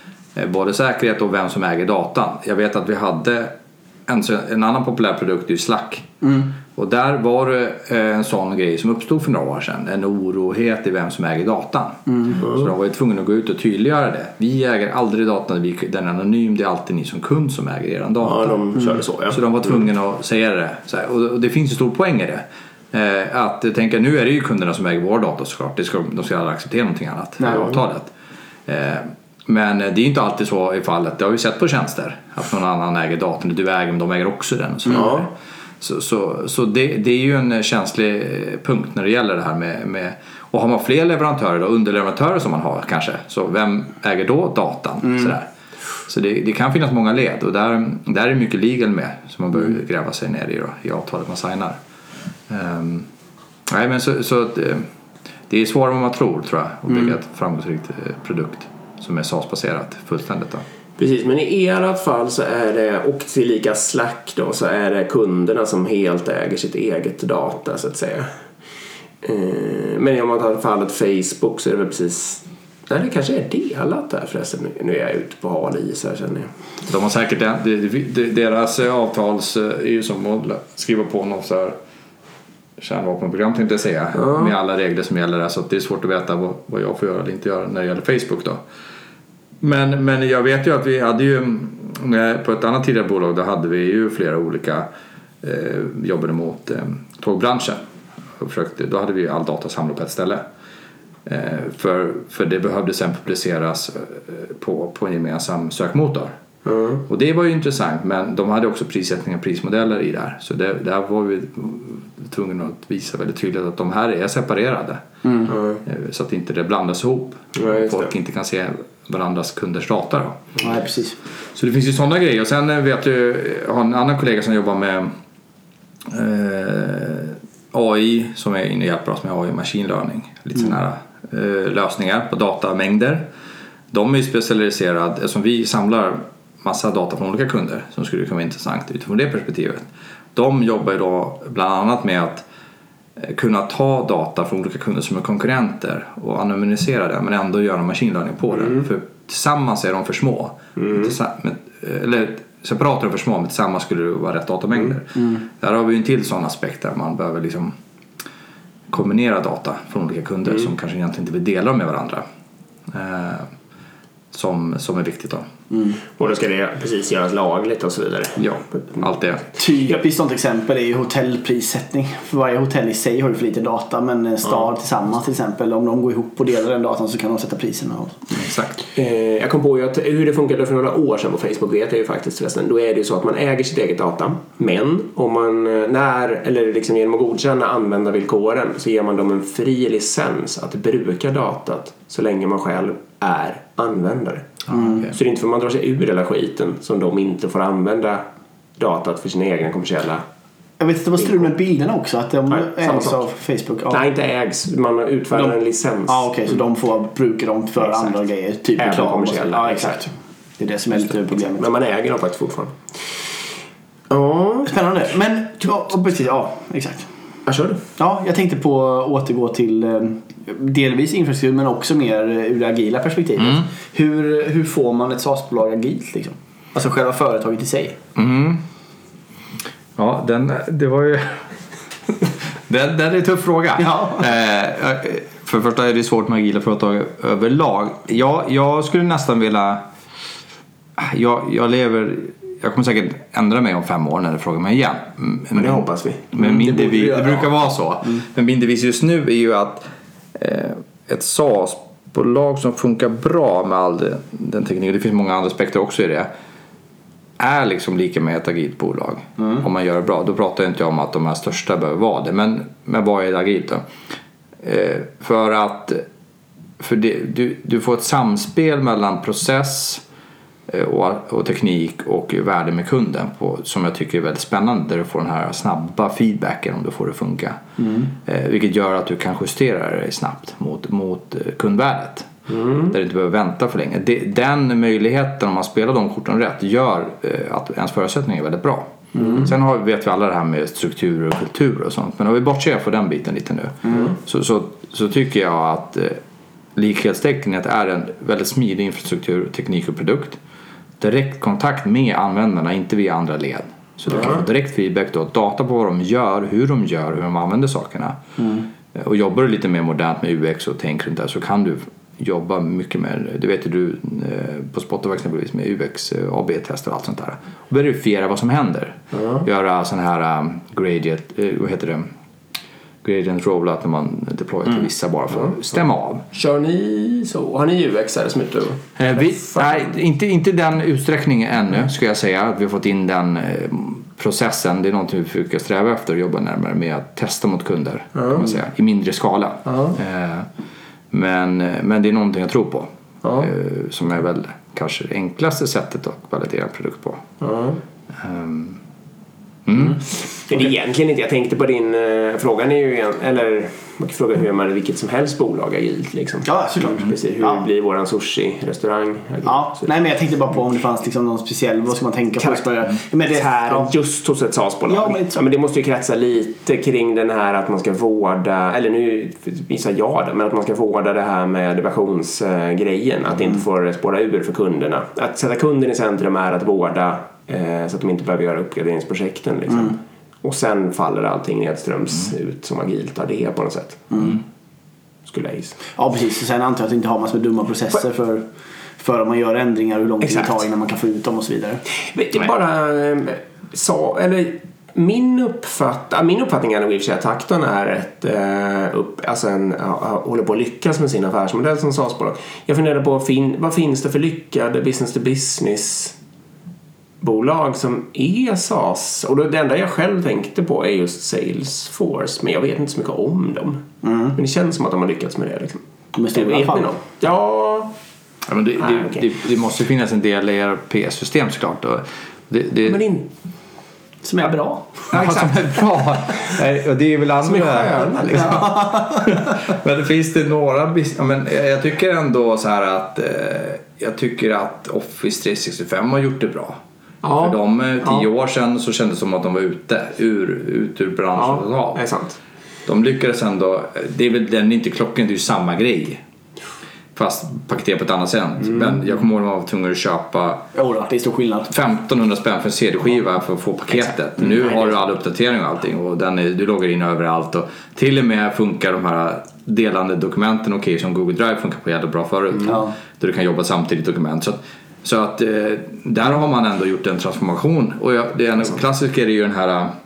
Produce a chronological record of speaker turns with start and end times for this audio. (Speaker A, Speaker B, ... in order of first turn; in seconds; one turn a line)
Speaker A: 0.3-3.5
Speaker A: 4.1-6.2
Speaker B: 6.2-6.5
Speaker A: 6.7-18.6
Speaker C: 12.4-12.7
Speaker C: 18.2-19.8
Speaker A: 19.3-28.1
Speaker B: 27.4-27.7
Speaker A: 28.7-45.5
Speaker C: 34.9-35.3
Speaker A: 46.1-51.8
Speaker A: 52.5-53.1
Speaker A: 53.7-54.9
Speaker A: 55.5-60.6
Speaker C: 61.0-68.3
Speaker C: 69.2-76.5
Speaker A: 76.8-81.8
Speaker A: 82.8-88.6
Speaker C: 84.2-84.5
Speaker A: 89.6-94.9
Speaker A: 95.4-97.8
Speaker A: 98.4-100.4
Speaker A: 101.3-106.3
Speaker C: 106.6-107.0
Speaker A: 107.0-120.8
Speaker B: 115.2-115.5
Speaker C: 115.5-115.8
Speaker C: 117.6-118.1
Speaker B: 120.6-121.2
Speaker A: 121.5-125.1
Speaker A: 126.1-133.3
Speaker A: 133.9-142.5
Speaker A: 143.2-157.8
Speaker C: 150.8-151.1
Speaker A: 158.9-162.2
Speaker A: 162.9-163.5
Speaker A: 164.3-165.5
Speaker B: 165.7-166.0
Speaker C: 166.2-168.5
Speaker A: 168.4-169.5
Speaker B: 169.6-178.4
Speaker A: 178.3-178.8
Speaker C: 178.9-198.3
Speaker A: 194.7-195.1
Speaker B: 194.7-195.1
Speaker C: 198.8-200.2
Speaker B: 200.8-204.0
Speaker C: 202.5-203.2
Speaker C: 203.9-206.3
Speaker B: 205.3-211.7
Speaker C: 208.8-210.0
Speaker C: 211.2-213.3
Speaker C: 214.1-214.7
Speaker B: 214.6-217.1
Speaker C: 217.5-217.8
Speaker B: 218.0-228.0
Speaker A: 228.2-228.6
Speaker A: 230.0-231.5
Speaker A: 232.7-239.8
Speaker B: 233.8-234.2
Speaker A: 241.0-256.3
Speaker C: 245.5-246.3
Speaker B: 246.4-247.4
Speaker A: 257.4-263.8
Speaker A: 264.6-266.0
Speaker A: 266.8-270.0
Speaker A: 270.7-277.6
Speaker B: 277.8-278.1
Speaker A: 278.1-282.3
Speaker C: 282.5-282.9
Speaker A: 282.9-296.2
Speaker B: 289.1-289.5
Speaker A: 296.8-300.4
Speaker A: 301.0-308.2
Speaker C: 304.1-304.4
Speaker B: 308.4-308.7
Speaker A: 308.9-322.1
Speaker C: 319.1-319.4
Speaker A: 323.0-326.2
Speaker C: 326.3-329.9
Speaker A: 329.0-340.5
Speaker C: 338.1-338.5
Speaker C: 339.7-340.0
Speaker A: 341.1-347.2
Speaker C: 343.2-343.5
Speaker C: 347.4-347.8
Speaker A: 348.1-348.8
Speaker A: 349.6-350.1
Speaker C: 350.3-359.9
Speaker B: 356.5-357.6
Speaker B: 359.4-363.9
Speaker C: 363.3-384.2
Speaker B: 364.9-365.4
Speaker B: 384.1-384.4
Speaker C: 385.3-385.8
Speaker B: 386.0-388.5
Speaker B: 389.0-391.8
Speaker C: 390.2-390.6
Speaker C: 392.0-406.2
Speaker C: 407.2-415.8
Speaker B: 414.0-414.4
Speaker B: 416.1-417.0
Speaker C: 416.3-417.9
Speaker A: 418.5-423.0
Speaker C: 418.8-419.2
Speaker C: 422.9-423.3
Speaker B: 424.2-425.1
Speaker A: 425.1-436.8
Speaker C: 425.1-425.6
Speaker C: 427.4-428.6
Speaker B: 428.4-429.2
Speaker C: 437.2-437.6
Speaker A: 437.3-442.1
Speaker C: 441.4-442.4
Speaker A: 442.9-446.2
Speaker A: 447.1-450.7
Speaker B: 450.8-451.7
Speaker A: 451.7-469.9